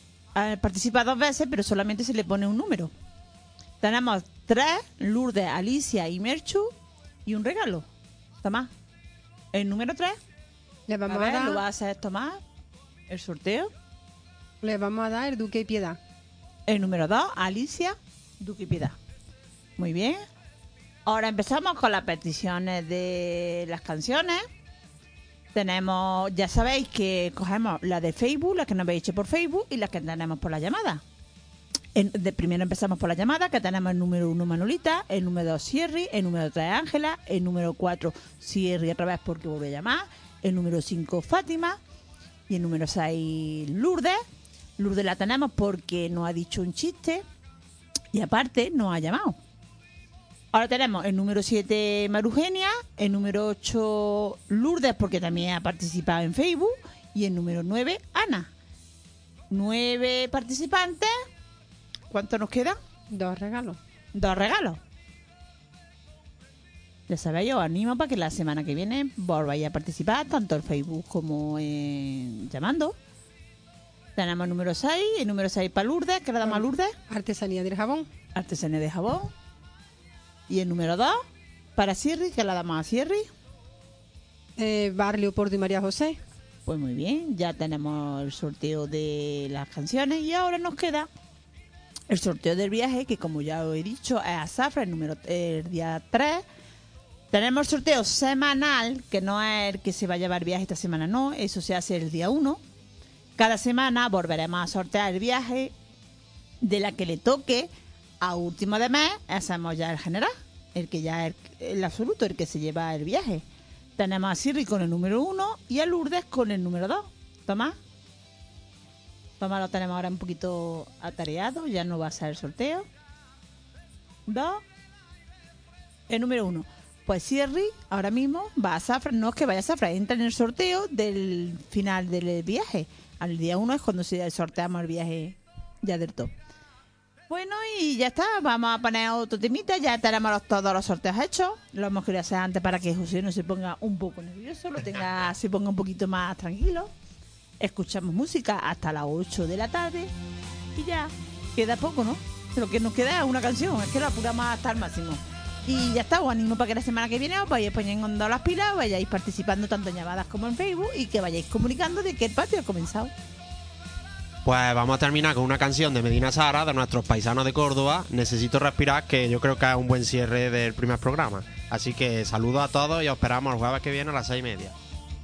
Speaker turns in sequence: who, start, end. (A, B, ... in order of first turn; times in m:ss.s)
0:00.4-0:02.9 A
0:03.8-0:06.7 A
0:07.3-0:07.9 A
0:08.4-0:08.7 A
0:09.5-0:10.2 A
0:10.9-0:11.6 B
0:11.1-0:12.4 A
0:13.1-0:13.7 A
0:14.6-0:16.0 B
0:16.7-0:19.0 A
0:19.8-0:20.2 A
0:21.1-0:24.4 A
0:25.6-0:31.0 A
0:31.9-0:41.8 A
0:42.5-0:44.2 A
0:44.8-0:47.2 A
0:48.1-0:49.4 A
0:50.5-0:58.5 A
0:59.5-1:01.1 A
1:02.1-1:02.8 A
1:03.1-1:03.8 B
1:04.2-1:04.8 A
1:07.1-1:12.9 A
1:14.2-1:16.9 A
1:16.4-1:18.1 B
1:18.4-1:19.3 A
1:20.5-1:21.2 A
1:21.8-1:23.3 A
1:24.6-1:26.2 B
1:26.7-1:31.1 A
1:32.1-1:36.4 A
1:37.3-1:42.6 A
1:43.4-1:45.7 A
1:46.6-1:53.4 A
1:54.0-1:57.8 A
1:59.4-2:02.9 A
2:04.3-2:04.6 A
2:06.1-2:16.3 A
2:17.3-2:26.9 A
2:27.6-2:30.1 A
2:30.8-2:43.1 A
2:44.4-2:54.7 C